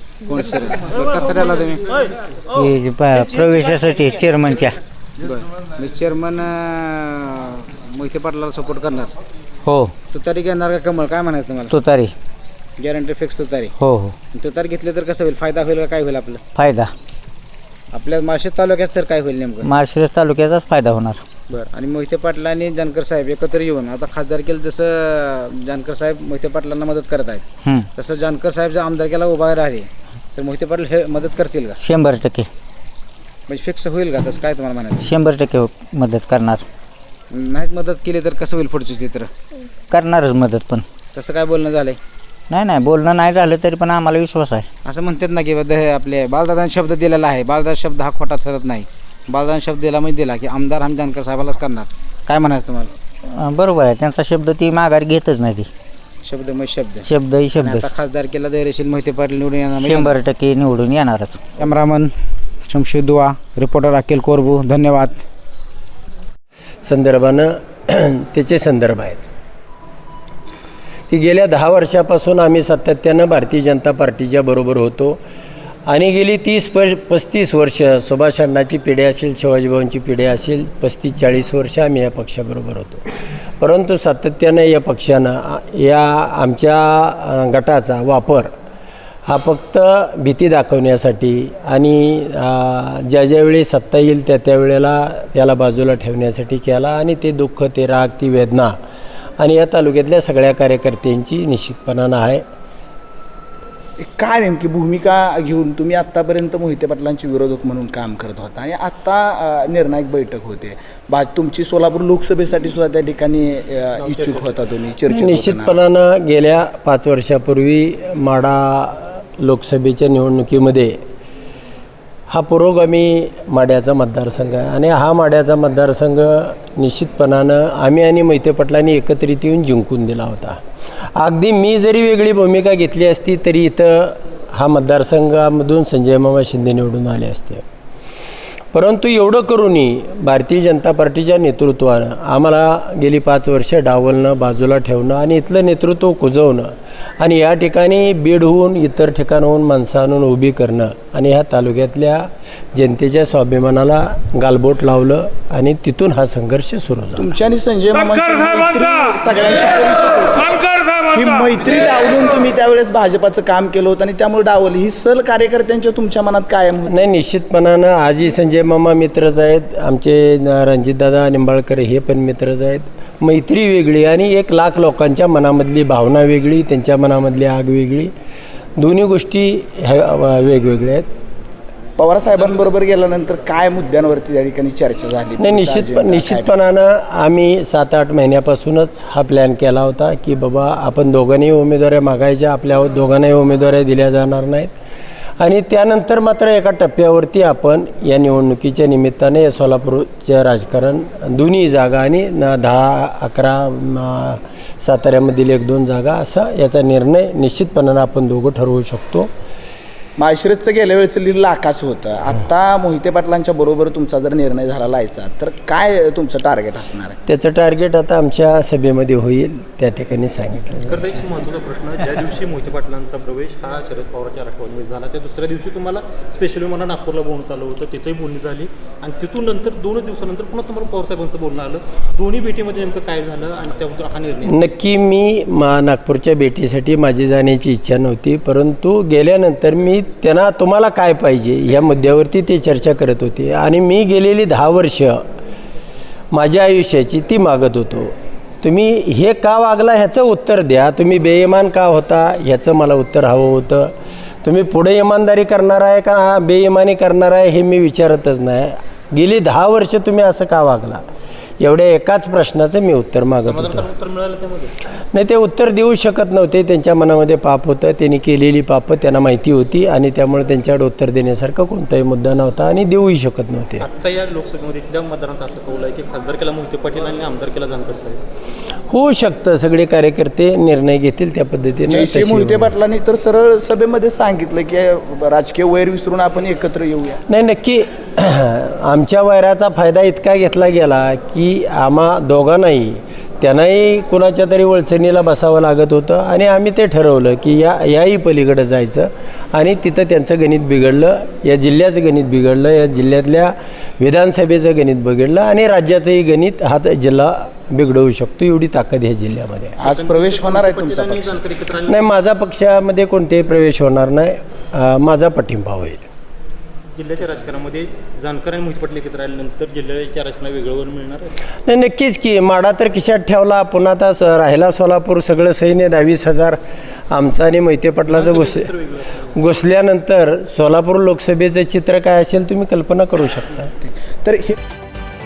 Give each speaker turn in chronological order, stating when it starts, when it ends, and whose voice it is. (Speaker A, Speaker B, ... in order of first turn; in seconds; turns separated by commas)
Speaker A: 0.2-1.9, Speaker B: 2.5-4.8, Speaker A: 5.2-9.1, Speaker B: 9.7-9.9, Speaker A: 10.1-11.8, Speaker B: 11.7-12.1, Speaker A: 12.8-13.8, Speaker B: 13.8-14.2, Speaker A: 14.3-16.4, Speaker B: 16.6-16.9, Speaker A: 17.9-19.7, Speaker B: 19.6-21.2, Speaker A: 21.5-27.4, Speaker A: 28.0-31.8, Speaker B: 31.8-32.5, Speaker A: 33.5-35.2, Speaker B: 35.0-36.6, Speaker A: 37.3-39.3, Speaker B: 39.9-40.9, Speaker A: 41.1-42.0, Speaker B: 42.5-44.7, Speaker A: 44.9-52.9, Speaker B: 53.3-55.7, Speaker A: 56.2-60.2, Speaker B: 57.0-57.9, Speaker B: 59.7-61.4, Speaker A: 61.6-62.1, Speaker A: 62.7-65.2, Speaker C: 66.8-69.2, Speaker C: 71.1-75.2, Speaker C: 75.9-83.0, Speaker C: 83.6-88.5, Speaker C: 89.3-98.8, Speaker C: 99.4-102.4, Speaker D: 104.0-115.8, Speaker E: 114.0-114.6, Speaker C: 115.1-121.0, Speaker C: 122.3-130.6, Speaker C: 131.2-137.6, Speaker C: 138.7-157.3, Speaker D: 157.2-166.9, Speaker C: 166.9-178.1, Speaker C: 178.8-181.1, Speaker D: 182.0-186.6, Speaker C: 185.4-194.7, Speaker C: 195.4-209.3, Speaker D: 210.2-217.2, Speaker C: 217.3-221.1, Speaker E: 220.8-234.6, Speaker C: 234.5-245.2, Speaker C: 246.3-253.9, Speaker C: 254.4-261.0, Speaker C: 261.6-263.9, Speaker E: 263.4-264.7, Speaker C: 265.1-273.9, Speaker E: 273.8-278.2, Speaker C: 278.9-282.7, Speaker D: 281.9-287.2, Speaker C: 287.3-309.8, Speaker D: 309.8-311.4, Speaker E: 309.8-311.9, Speaker C: 311.8-316.1, Speaker E: 316.9-321.3, Speaker C: 321.6-326.6, Speaker C: 327.1-328.7, Speaker E: 328.1-329.2, Speaker C: 329.4-333.7, Speaker D: 333.8-334.6